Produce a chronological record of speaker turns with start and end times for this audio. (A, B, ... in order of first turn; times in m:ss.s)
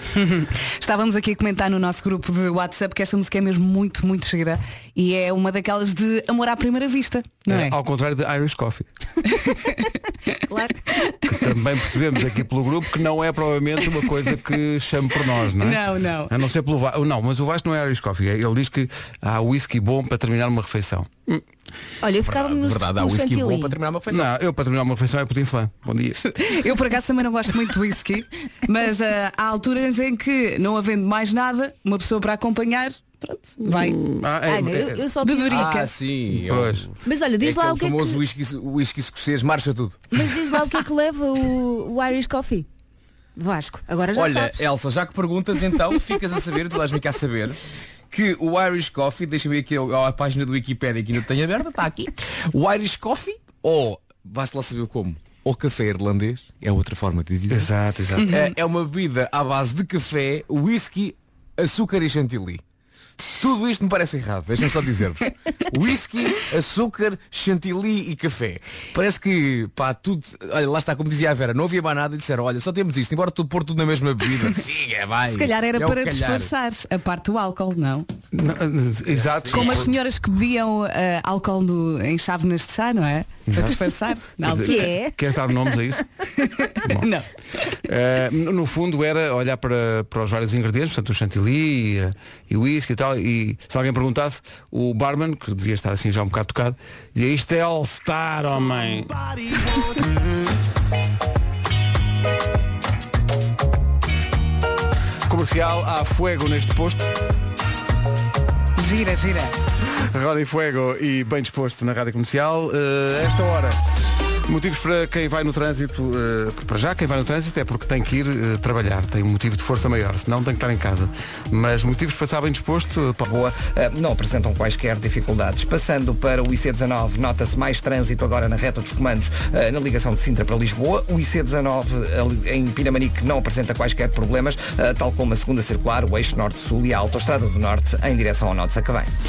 0:00.2-0:07.8 A
0:07.5-0:08.9 B
0:09.3-0:09.9 A
0:10.5-0:10.8 C
0:11.3-0:21.4 B
0:15.6-0:16.3 A
0:22.0-0:23.8 C
0:22.2-0:24.3 D
0:24.1-0:26.2 B
0:26.3-0:34.0 A
0:33.6-0:35.0 B
0:34.4-0:35.7 C
0:35.2-0:35.9 A
0:35.5-0:40.0 D
0:36.3-0:36.9 B
0:37.0-0:38.2 C
0:40.1-0:42.7 C
0:43.4-0:44.7 C
0:44.1-0:47.6 D
0:48.1-0:57.7 D
0:57.5-0:58.4 B
0:58.3-1:02.6 D
1:03.4-1:16.5 D
1:15.3-1:18.1 A
1:18.3-1:19.9 B
1:19.2-1:19.8 D
1:19.5-1:24.9 A
1:23.5-1:23.9 B
1:24.4-1:26.1 B
1:24.5-1:25.2 C
1:26.4-1:27.2 A
1:26.8-1:27.1 B
1:27.8-1:39.1 B
1:45.3-1:47.1 B
1:48.8-1:49.6 A
1:49.8-1:53.8 B
1:54.4-2:03.2 B
2:03.2-2:19.1 E